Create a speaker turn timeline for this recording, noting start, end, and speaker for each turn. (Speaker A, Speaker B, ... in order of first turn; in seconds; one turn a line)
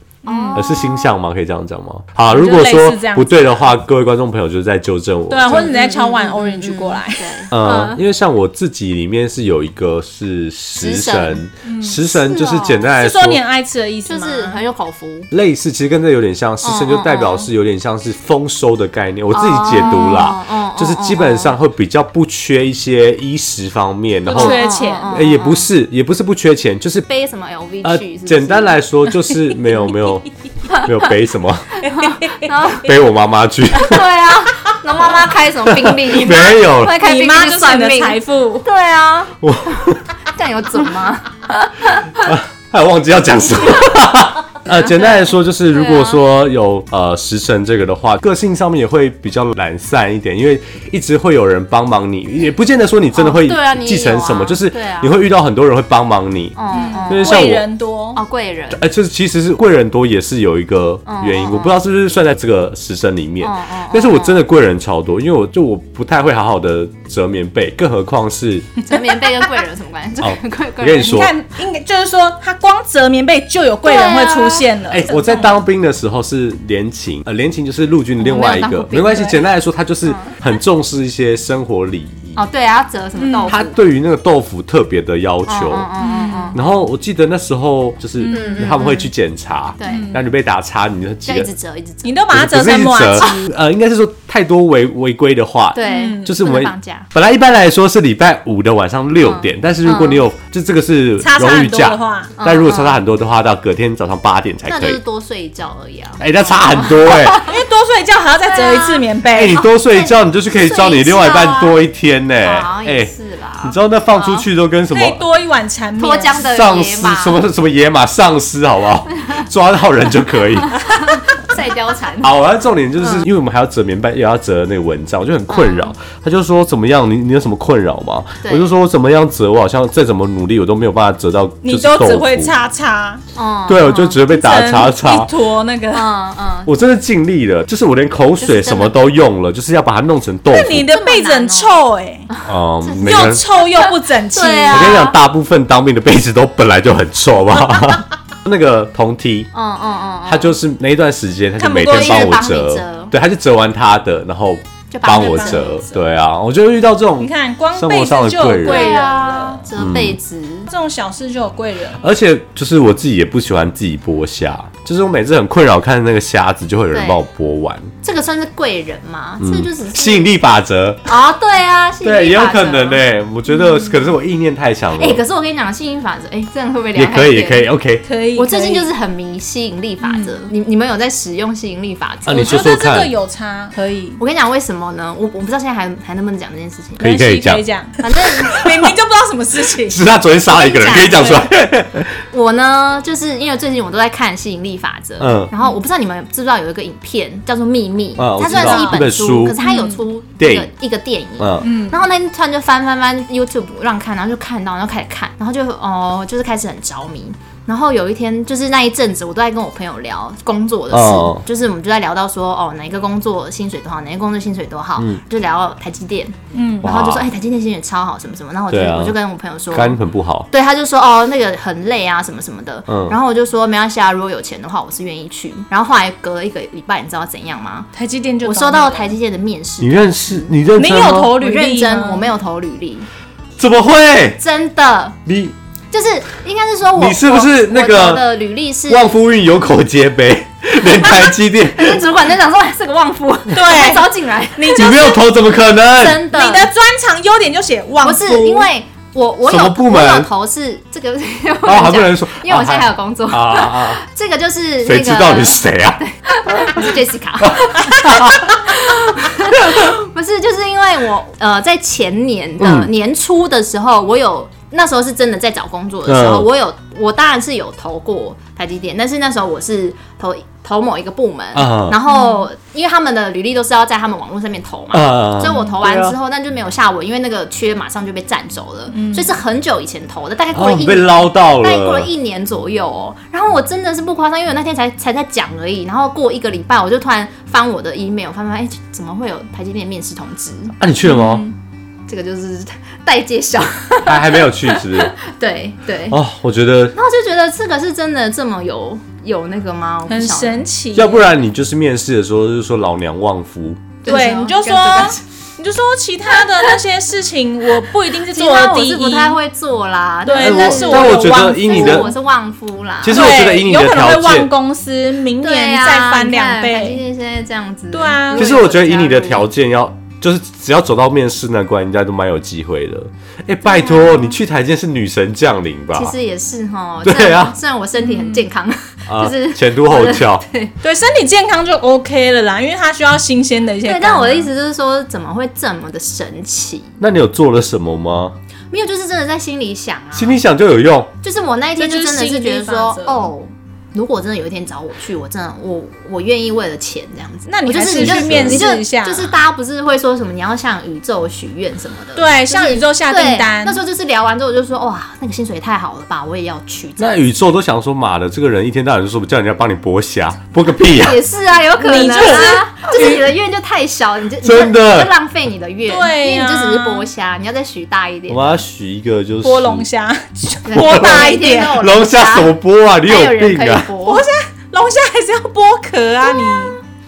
Speaker A: 0.2-1.1
Speaker B: 0.3-0.8
Speaker C: 0.5-5.7
Speaker B: 2.3-3.7
Speaker B: 5.3-7.5
Speaker A: 5.5-8.0
Speaker C: 7.5-13.4
Speaker A: 10.8-11.4
Speaker B: 11.6-12.0
Speaker A: 12.0-12.9
Speaker B: 13.0-14.6
Speaker A: 14.1-15.3
Speaker C: 15.3-27.1
Speaker A: 16.6-17.5
Speaker A: 19.3-21.6
Speaker A: 24.3-25.7
Speaker B: 24.3-25.2
Speaker A: 27.1-28.8
Speaker C: 27.8-31.7
Speaker A: 31.8-32.9
Speaker B: 31.9-32.5
Speaker C: 32.7-34.0
Speaker A: 33.8-42.3
Speaker C: 35.6-37.0
Speaker B: 36.3-38.7
Speaker C: 39.4-40.0
Speaker C: 42.2-57.6
Speaker A: 44.7-46.2
Speaker A: 53.1-55.2
Speaker A: 56.6-57.6
Speaker B: 56.7-58.2
Speaker A: 58.1-58.8
Speaker C: 58.7-68.8
Speaker A: 61.1-61.8
Speaker A: 63.4-64.4
Speaker A: 68.8-71.2
Speaker C: 70.2-71.3
Speaker B: 71.0-75.6
Speaker A: 73.8-74.7
Speaker C: 74.9-82.4
Speaker A: 78.2-79.4
Speaker A: 80.0-80.4
Speaker A: 82.4-83.8
Speaker B: 83.2-83.5
Speaker C: 83.5-85.9
Speaker A: 85.5-86.6
Speaker B: 86.0-86.6
Speaker C: 86.5-91.5
Speaker B: 88.2-88.7
Speaker A: 88.3-89.1
Speaker A: 89.8-90.1
Speaker B: 89.9-90.2
Speaker A: 91.2-92.2
Speaker B: 92.0-93.5
Speaker C: 92.3-105.0
Speaker A: 95.8-97.1
Speaker B: 95.8-96.4
Speaker A: 99.2-100.2
Speaker B: 101.2-102.3
Speaker A: 102.4-103.0
Speaker A: 104.7-107.6
Speaker C: 106.2-107.5
Speaker B: 107.4-109.6
Speaker A: 108.5-111.9
Speaker C: 109.3-113.1
Speaker A: 112.4-114.5
Speaker C: 113.6-115.2
Speaker B: 114.9-116.5
Speaker A: 116.0-117.4
Speaker C: 116.5-121.0
Speaker A: 119.2-119.4
Speaker A: 120.6-122.4
Speaker C: 122.2-132.5
Speaker A: 123.0-123.3
Speaker A: 125.5-125.9
Speaker A: 128.4-128.7
Speaker B: 131.6-133.2
Speaker A: 133.3-134.2
Speaker C: 133.7-135.3
Speaker B: 134.2-136.1
Speaker A: 135.9-136.7
Speaker C: 136.7-140.9
Speaker A: 138.4-139.0
Speaker B: 140.5-142.3
Speaker A: 140.8-141.8
Speaker A: 142.3-145.2
Speaker C: 142.5-143.4
Speaker B: 143.0-145.0
Speaker C: 144.7-149.5
Speaker A: 149.5-150.6
Speaker C: 150.3-158.9
Speaker B: 151.6-152.5
Speaker A: 151.9-153.1
Speaker A: 154.9-155.8
Speaker B: 155.1-156.0
Speaker B: 157.2-159.7
Speaker A: 158.6-160.7
Speaker C: 159.8-160.2
Speaker B: 160.7-162.0
Speaker C: 162.0-167.9
Speaker A: 166.9-167.2
Speaker A: 168.0-170.3
Speaker C: 169.4-171.0
Speaker A: 171.1-174.1
Speaker C: 172.0-175.2
Speaker A: 175.0-177.7
Speaker C: 176.9-178.1
Speaker B: 178.1-178.9
Speaker A: 178.3-182.7
Speaker B: 180.0-180.4
Speaker C: 182.3-183.1
Speaker B: 182.3-184.2
Speaker A: 184.2-187.1
Speaker C: 187.0-187.6
Speaker B: 187.0-190.1
Speaker A: 188.0-188.6
Speaker C: 189.8-192.2
Speaker A: 190.5-191.4
Speaker B: 191.0-191.4
Speaker A: 192.3-220.0
Speaker C: 195.2-195.5
Speaker C: 198.2-199.6
Speaker B: 198.5-199.0
Speaker B: 199.6-200.0
Speaker C: 200.4-200.7
Speaker C: 201.4-201.7
Speaker B: 201.6-202.0
Speaker C: 210.9-211.4
Speaker B: 216.5-216.9
Speaker C: 216.8-217.3
Speaker C: 218.7-219.2
Speaker C: 219.7-220.5
Speaker A: 220.5-227.9
Speaker C: 222.9-223.2
Speaker B: 227.9-229.2
Speaker A: 228.4-230.5
Speaker C: 229.8-231.3
Speaker B: 230.8-232.3
Speaker A: 231.3-233.1
Speaker C: 233.6-234.4
Speaker A: 234.4-235.2
Speaker C: 235.3-235.6
Speaker A: 235.9-239.1
Speaker C: 237.0-238.3
Speaker C: 238.9-242.0
Speaker A: 240.8-245.2
Speaker B: 243.5-245.2
Speaker C: 244.8-246.2
Speaker A: 245.9-246.7
Speaker B: 246.3-248.7
Speaker A: 248.0-290.8
Speaker C: 249.5-250.3
Speaker C: 251.7-254.0
Speaker C: 254.8-256.9
Speaker C: 257.4-258.6
Speaker C: 259.6-259.9
Speaker C: 262.6-262.9
Speaker C: 266.1-266.5
Speaker C: 271.5-272.0
Speaker B: 272.1-272.5
Speaker C: 274.9-276.2
Speaker B: 278.9-279.3
Speaker C: 280.5-282.1
Speaker C: 290.8-291.5
Speaker B: 291.0-291.5
Speaker A: 292.1-296.2
Speaker C: 294.1-295.1
Speaker C: 296.1-296.9
Speaker A: 296.9-300.7
Speaker B: 300.1-301.3
Speaker C: 300.9-303.9
Speaker A: 304.0-305.2
Speaker B: 304.1-309.4
Speaker A: 306.3-306.8
Speaker A: 308.3-313.4
Speaker B: 310.3-312.1
Speaker C: 310.4-312.1
Speaker C: 313.0-314.5
Speaker B: 313.1-317.0
Speaker A: 315.4-319.5
Speaker B: 317.9-318.6
Speaker C: 318.3-326.1
Speaker A: 323.6-324.3
Speaker A: 325.9-330.7
Speaker C: 327.0-327.6
Speaker B: 328.0-328.4
Speaker C: 329.1-330.4
Speaker B: 330.8-334.5
Speaker A: 333.8-337.0
Speaker C: 337.0-338.4
Speaker A: 338.7-340.4
Speaker C: 340.1-341.1
Speaker A: 341.2-357.2
Speaker B: 341.8-343.3
Speaker B: 347.5-349.4
Speaker C: 347.9-348.6
Speaker B: 352.2-353.8
Speaker C: 357.0-361.2
Speaker A: 360.8-368.6
Speaker B: 361.8-363.2
Speaker C: 364.4-365.1
Speaker B: 365.9-367.1
Speaker C: 368.3-369.9
Speaker B: 369.4-371.8
Speaker A: 370.7-374.3
Speaker C: 370.8-373.9
Speaker B: 374.1-376.8
Speaker A: 376.3-376.8